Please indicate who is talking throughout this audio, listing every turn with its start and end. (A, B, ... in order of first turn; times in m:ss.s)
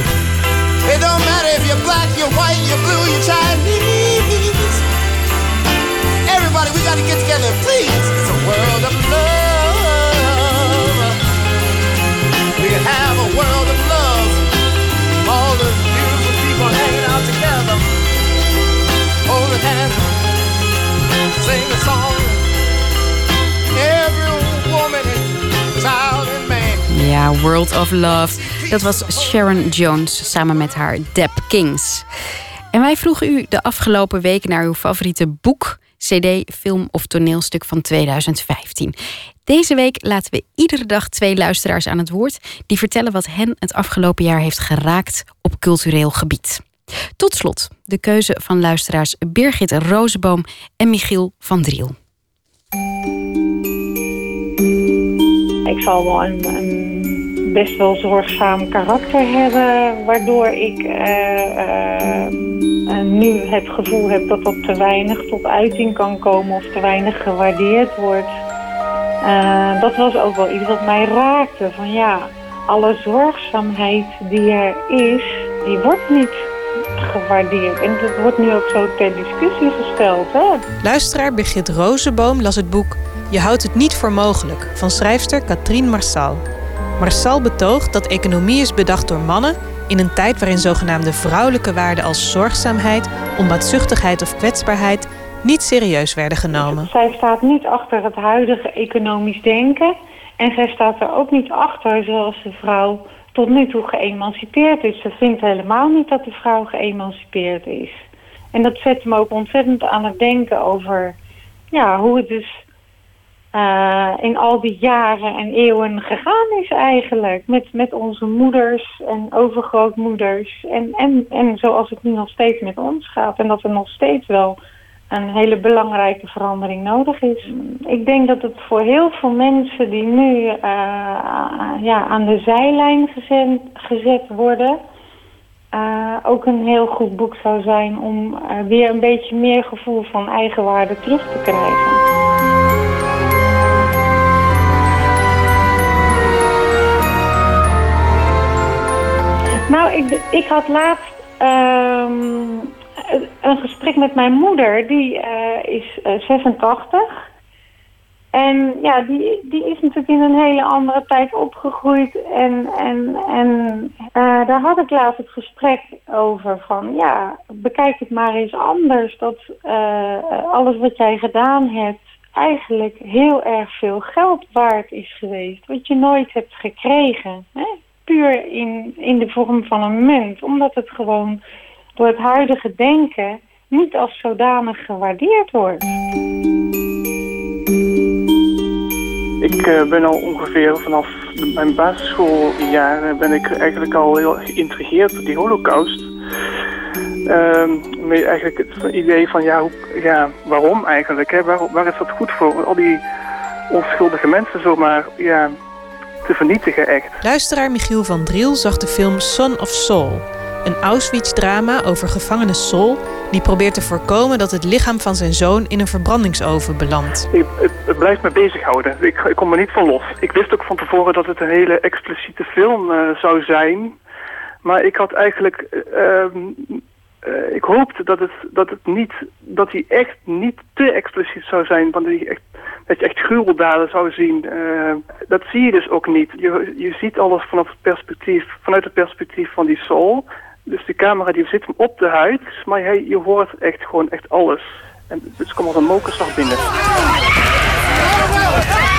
0:00.8-0:04.8 A
0:06.2-0:11.2 A
0:12.6-0:14.4 A
0:15.2-0:17.9 A
0:19.3-0:20.2 A
0:21.4-0:22.4 A
0:23.7-0:26.9 A
0:26.9-0:32.0 B
0:28.4-0:29.5 A
0:32.7-0:39.0 B
0:39.5-0:46.6 B
0:47.2-0:52.0 B
0:55.7-1:02.4 C
1:02.9-1:08.3 C
1:09.2-1:16.4 C
1:17.0-1:20.6 C
1:20.8-1:26.4 D
1:27.0-1:36.9 D
1:36.7-1:48.0 C
1:48.5-1:51.2 C
1:51.7-1:52.6 C
1:53.5-2:04.6 C
2:05.1-2:14.8 C
2:15.7-2:22.0 C
2:29.7-2:37.2 C
2:38.3-3:01.4 C
3:02.0-3:05.8 C
3:09.4-3:16.1 E
3:17.3-3:23.0 E
3:23.7-3:25.6 E
3:26.2-3:27.2 E
3:27.2-3:37.3 D
3:37.3-3:44.0 E
3:44.6-4:06.7 E